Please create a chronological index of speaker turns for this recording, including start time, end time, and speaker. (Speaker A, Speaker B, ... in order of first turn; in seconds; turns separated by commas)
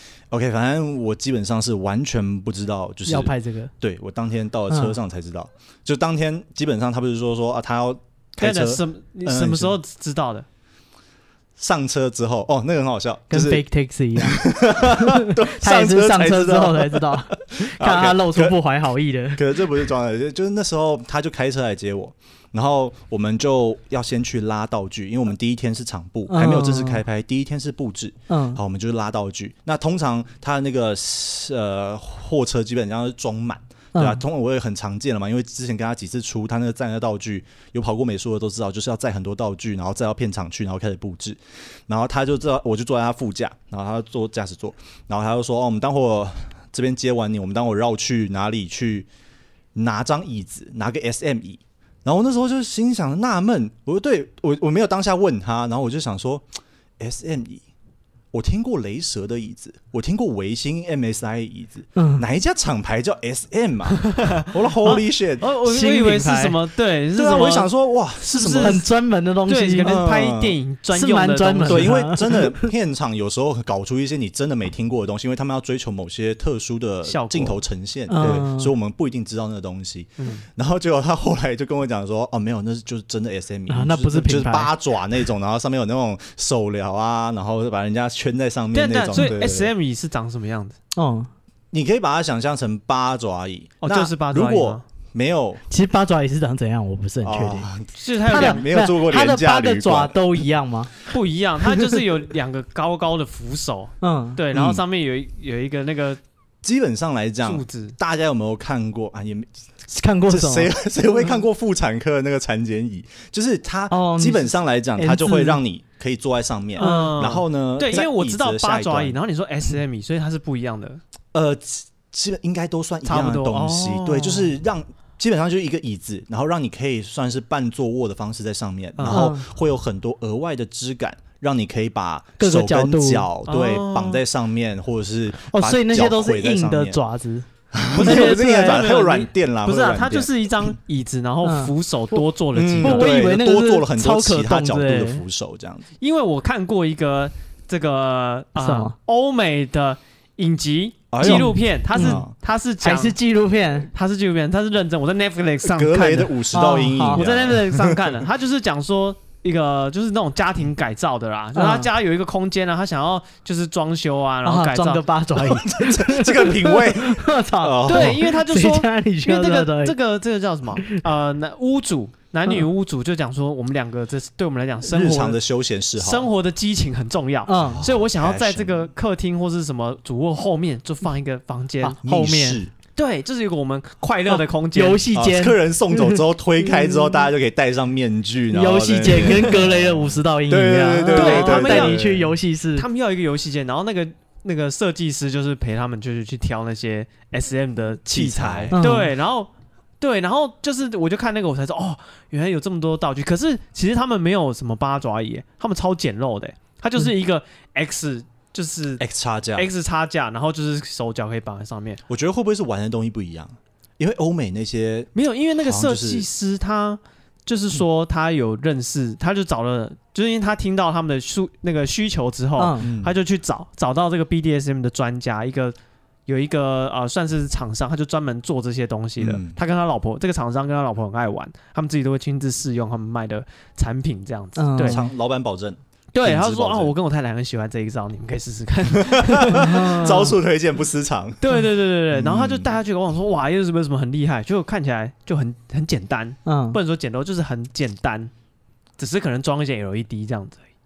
Speaker A: 0.3-9.8, Speaker B: 3.1-3.7, Speaker B: 4.7-5.0, Speaker C: 8.4-10.4, Speaker A: 11.6-13.6, Speaker B: 13.3-19.5, Speaker A: 14.2-18.6, Speaker A: 19.3-49.1, Speaker B: 26.3-27.0, Speaker B: 28.3-28.6, Speaker B: 33.9-34.2, Speaker A: 49.7-56.5, Speaker A: 57.0-57.6, Speaker A: 58.3-65.4, Speaker B: 62.0-62.2, Speaker C: 63.9-67.7, Speaker B: 65.6-66.6, Speaker A: 67.2-68.9, Speaker C: 68.2-68.8, Speaker B: 68.3-70.0, Speaker C: 69.5-72.1, Speaker A: 69.8-70.6, Speaker B: 70.9-72.7, Speaker A: 71.6-89.7, Speaker C: 77.0-77.6, Speaker B: 78.1-78.7, Speaker C: 80.2-80.4, Speaker B: 83.7-84.7, Speaker C: 88.7-90.8, Speaker B: 91.0-91.3, Speaker A: 91.7-95.6, Speaker C: 93.8-94.8, Speaker B: 95.7-97.7, Speaker A: 97.2-100.4, Speaker C: 98.0-98.6, Speaker B: 98.3-100.9, Speaker C: 101.1-106.2, Speaker B: 104.0-104.4, Speaker A: 104.5-104.8, Speaker A: 106.6-109.5, Speaker C: 107.4-108.0, Speaker B: 109.9-110.7, Speaker A: 110.3-119.2, Speaker B: 113.9-115.6, Speaker C: 116.8-121.0, Speaker B: 116.8-117.4, Speaker A: 121.3-137.0, Speaker C: 123.0-124.5, Speaker C: 128.9-129.3, Speaker B: 129.1-129.5, Speaker B: 132.4-133.3, Speaker C: 133.4-134.2, Speaker B: 135.5-137.5, Speaker A: 137.7-140.7, Speaker C: 137.9-143.1, Speaker B: 138.0-138.8, Speaker B: 141.4-142.2, Speaker A: 142.5-145.8, Speaker B: 142.8-145.2, Speaker C: 146.0-153.2, Speaker B: 148.6-148.9, Speaker A: 151.1-152.3, Speaker B: 151.2-152.2, Speaker B: 152.8-153.9, Speaker C: 153.9-156.4, Speaker A: 155.6-158.2, Speaker B: 156.5-157.2, Speaker C: 157.1-165.0, Speaker B: 161.5-161.9, Speaker B: 164.4-169.9, Speaker A: 165.4-168.3, Speaker C: 167.9-175.4, Speaker A: 174.8-176.3, Speaker C: 176.0-182.1, Speaker B: 177.5-177.8, Speaker A: 177.6-178.9, Speaker B: 181.8-182.6, Speaker A: 182.0-182.7, Speaker C: 182.9-185.0, Speaker B: 184.3-186.2, Speaker A: 185.1-192.3, Speaker B: 188.5-192.8, Speaker C: 191.1-192.0, Speaker C: 192.7-209.0, Speaker A: 198.1-198.8, Speaker B: 198.7-199.1, Speaker A: 209.0-209.7, Speaker C: 209.6-212.0, Speaker A: 212.1-215.1, Speaker C: 215.1-225.8, Speaker A: 215.6-216.3, Speaker B: 222.6-222.9, Speaker A: 222.8-223.1, Speaker C: 226.3-235.0, Speaker A: 229.2-229.6, Speaker B: 234.6-235.0, Speaker A: 234.8-236.9, Speaker C: 236.1-240.3, Speaker A: 239.0-241.5, Speaker B: 239.5-240.3, Speaker C: 241.4-248.3, Speaker A: 242.1-242.7, Speaker B: 246.4-246.8, Speaker C: 249.0-250.6